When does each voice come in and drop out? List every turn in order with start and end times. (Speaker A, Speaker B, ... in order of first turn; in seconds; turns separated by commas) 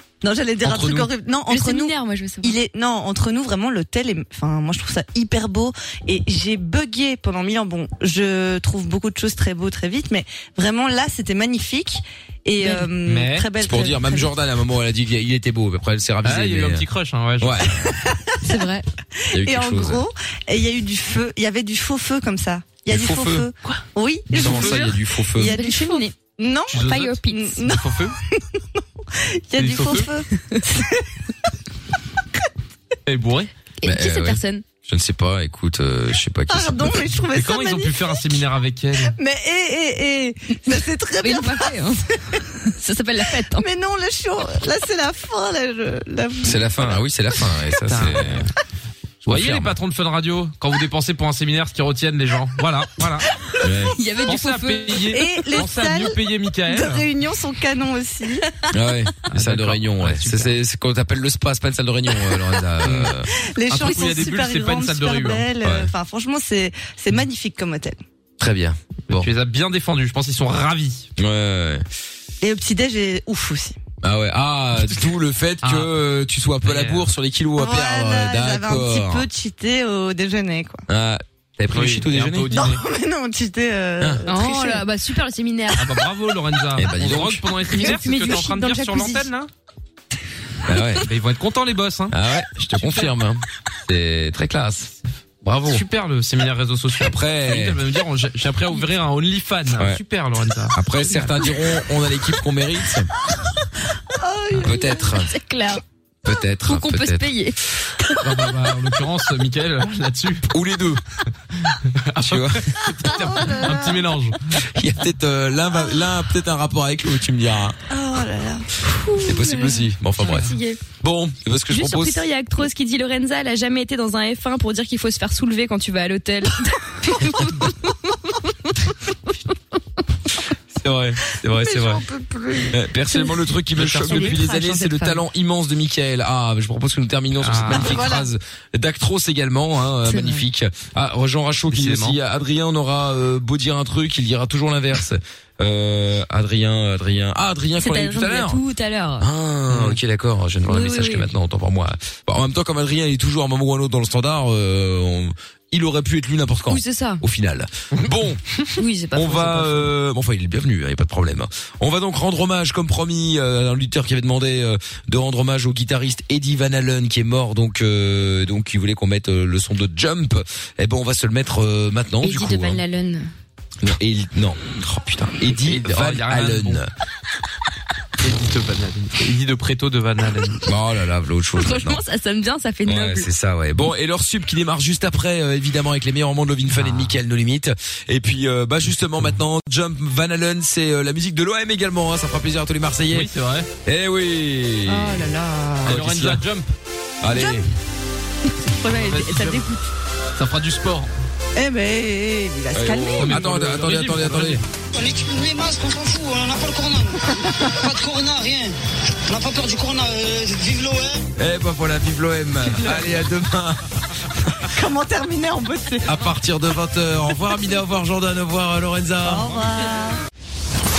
Speaker A: 0.2-14.3, Speaker B: 1.5-2.6, Speaker C: 13.0-13.4, Speaker D: 13.6-16.9, Speaker C: 16.2-17.7, Speaker D: 17.4-17.9, Speaker A: 18.0-18.5, Speaker B: 18.4-18.9, Speaker A: 19.2-31.1, Speaker D: 19.3-20.1, Speaker D: 22.9-23.5, Speaker C: 23.6-24.9, Speaker D: 24.3-25.6, Speaker B: 24.5-26.1, Speaker C: 26.7-28.2, Speaker B: 26.9-27.6, Speaker C: 29.6-30.1, Speaker C: 33.1-33.5, Speaker B: 33.8-34.6, Speaker D: 33.8-37.0, Speaker A: 36.5-38.0, Speaker C: 37.3-39.2, Speaker A: 39.1-42.5, Speaker B: 41.2-42.1, Speaker B: 42.7-43.6, Speaker A: 43.4-46.8, Speaker D: 46.4-48.5, Speaker C: 47.9-48.5, Speaker D: 49.2-49.8, Speaker C: 49.3-53.3, Speaker D: 53.6-54.0, Speaker B: 53.9-55.2, Speaker C: 54.3-57.1, Speaker A: 55.1-58.5, Speaker D: 58.7-63.3, Speaker C: 59.3-60.6, Speaker C: 62.8-63.1, Speaker A: 63.4-68.0, Speaker C: 63.7-65.5, Speaker D: 65.6-65.9, Speaker D: 68.4-69.3, Speaker C: 69.1-71.1, Speaker D: 71.2-71.8, Speaker A: 72.4-73.8, Speaker D: 74.0-79.3, Speaker C: 75.6-75.9, Speaker C: 76.6-77.1, Speaker A: 77.6-80.8, Speaker D: 80.9-82.7, Speaker C: 81.7-82.8, Speaker A: 82.5-84.8, Speaker B: 84.3-85.9, Speaker C: 85.8-89.5, Speaker D: 86.8-87.5, Speaker B: 87.7-89.3, Speaker D: 90.7-91.1, Speaker C: 91.0-92.1, Speaker D: 92.1-95.0, Speaker C: 92.8-93.1, Speaker D: 95.5-95.8, Speaker C: 95.5-100.8, Speaker D: 97.0-97.8, Speaker D: 100.7-103.1, Speaker A: 104.1-105.0, Speaker D: 104.5-105.3, Speaker B: 104.8-105.8, Speaker D: 106.2-107.3, Speaker B: 106.7-107.6, Speaker C: 108.2-110.5, Speaker D: 110.5-111.0, Speaker C: 111.9-114.5, Speaker D: 112.2-112.7, Speaker A: 112.8-114.1, Speaker D: 114.6-117.8, Speaker A: 117.9-118.7, Speaker B: 118.9-120.8, Speaker D: 119.2-122.2, Speaker B: 121.7-128.3, Speaker D: 130.7-132.1, Speaker A: 131.5-132.8, Speaker D: 132.7-148.6, Speaker B: 133.1-135.2, Speaker C: 133.8-134.4, Speaker C: 137.4-138.0, Speaker A: 137.7-138.3, Speaker B: 140.1-140.4, Speaker C: 141.7-142.2, Speaker B: 147.8-149.3, Speaker D: 149.2-172.8, Speaker C: 149.7-150.0, Speaker B: 150.7-151.3, Speaker B: 156.7-157.2, Speaker B: 158.8-159.9, Speaker B: 172.2-173.3, Speaker D: 173.8-176.9, Speaker C: 175.5-176.8, Speaker C: 178.2-180.7, Speaker D: 180.7-182.0, Speaker B: 181.6-183.3, Speaker D: 182.8-193.3, Speaker C: 186.7-187.2, Speaker C: 193.1-193.7, Speaker D: 193.8-195.3, Speaker A: 194.9-196.0, Speaker D: 195.8-196.4, Speaker C: 195.9-196.7, Speaker D: 197.2-197.7, Speaker A: 197.3-197.6, Speaker A: 198.7-199.9, Speaker C: 198.9-199.6, Speaker C: 200.4-201.1, Speaker A: 201.6-203.3, Speaker D: 202.7-204.6, Speaker C: 203.2-204.6, Speaker E: 204.9-208.8, Speaker A: 207.4-207.9, Speaker E: 209.3-211.2, Speaker D: 211.4-213.8, Speaker A: 212.6-213.1, Speaker A: 214.7-216.1, Speaker D: 216.1-219.5, Speaker A: 219.2-220.2